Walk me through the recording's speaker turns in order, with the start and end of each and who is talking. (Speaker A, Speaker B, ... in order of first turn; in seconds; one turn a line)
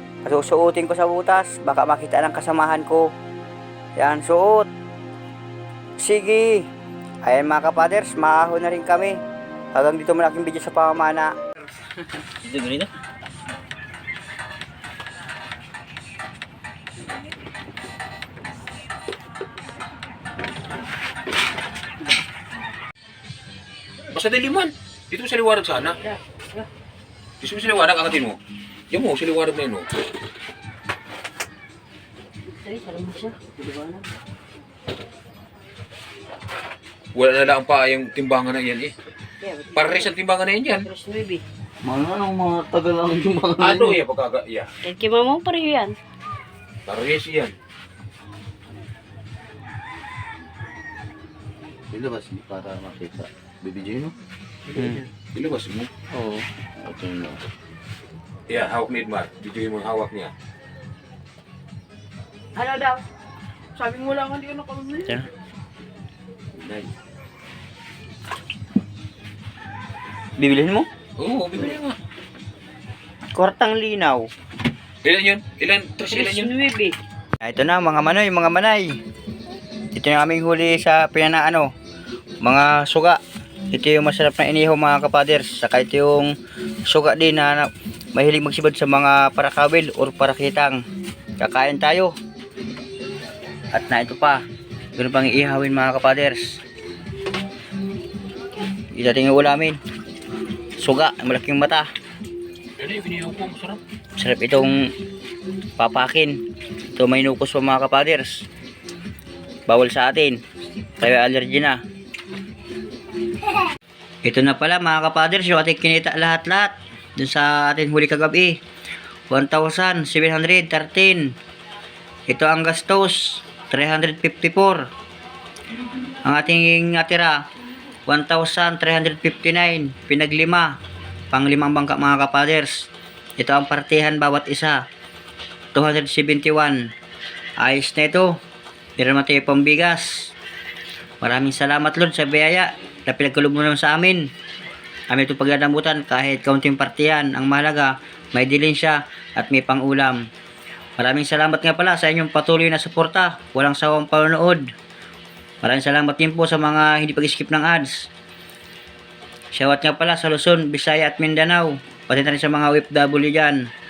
Speaker A: 0.2-3.0
Speaker A: 4.0-4.7
Speaker A: 6.0-6.6
Speaker A: 7.2-9.2
Speaker A: 9.7-11.3
Speaker B: 12.5-12.8
Speaker C: 24.1-26.0
Speaker C: 27.4-28.4
Speaker C: 28.9-29.9
Speaker D: 32.6-33.4
Speaker B: 33.6-34.0
Speaker C: 37.1-38.9
Speaker D: 39.5-39.8
Speaker C: 39.7-40.9
Speaker D: 40.9-41.4
Speaker B: 41.8-44.0
Speaker C: 43.6-44.7
Speaker D: 45.0-46.0
Speaker C: 46.9-47.5
Speaker B: 51.9-54.1
Speaker A: 54.7-55.0
Speaker C: 55.3-55.9
Speaker A: 56.1-56.4
Speaker B: 56.8-57.4
Speaker C: 58.5-60.3
Speaker D: 62.5-63.0
Speaker D: 63.8-65.1
Speaker C: 66.5-66.9
Speaker A: 70.4-70.9
Speaker C: 71.2-72.0
Speaker A: 73.3-74.3
Speaker C: 75.0-76.5
Speaker D: 76.1-76.9
Speaker A: 77.4-78.9
Speaker A: 79.9-81.7
Speaker A: 82.4-83.2
Speaker A: 83.7-86.3
Speaker A: 86.9-90.8
Speaker A: 91.4-92.1
Speaker A: 93.7-94.4
Speaker A: 95.0-96.5
Speaker A: 98.9-99.8
Speaker A: 100.8-101.9
Speaker C: 102.8-103.8
Speaker A: 104.2-104.9
Speaker A: 105.8-106.4
Speaker A: 106.9-108.5
Speaker A: 109.7-110.4
Speaker A: 111.0-111.8
Speaker A: 114.2-118.6
Speaker A: 119.3-121.3
Speaker A: 122.3-124.8
Speaker A: 126.2-127.4
Speaker A: 128.1-130.8
Speaker A: 131.3-132.9
Speaker A: 133.4-134.8
Speaker A: 135.7-136.8
Speaker A: 137.6-138.3
Speaker A: 139.0-140.3
Speaker A: 141.2-144.3
Speaker A: 145.1-150.2
Speaker A: 151.0-154.7
Speaker A: 155.6-158.1
Speaker A: 159.5-163.6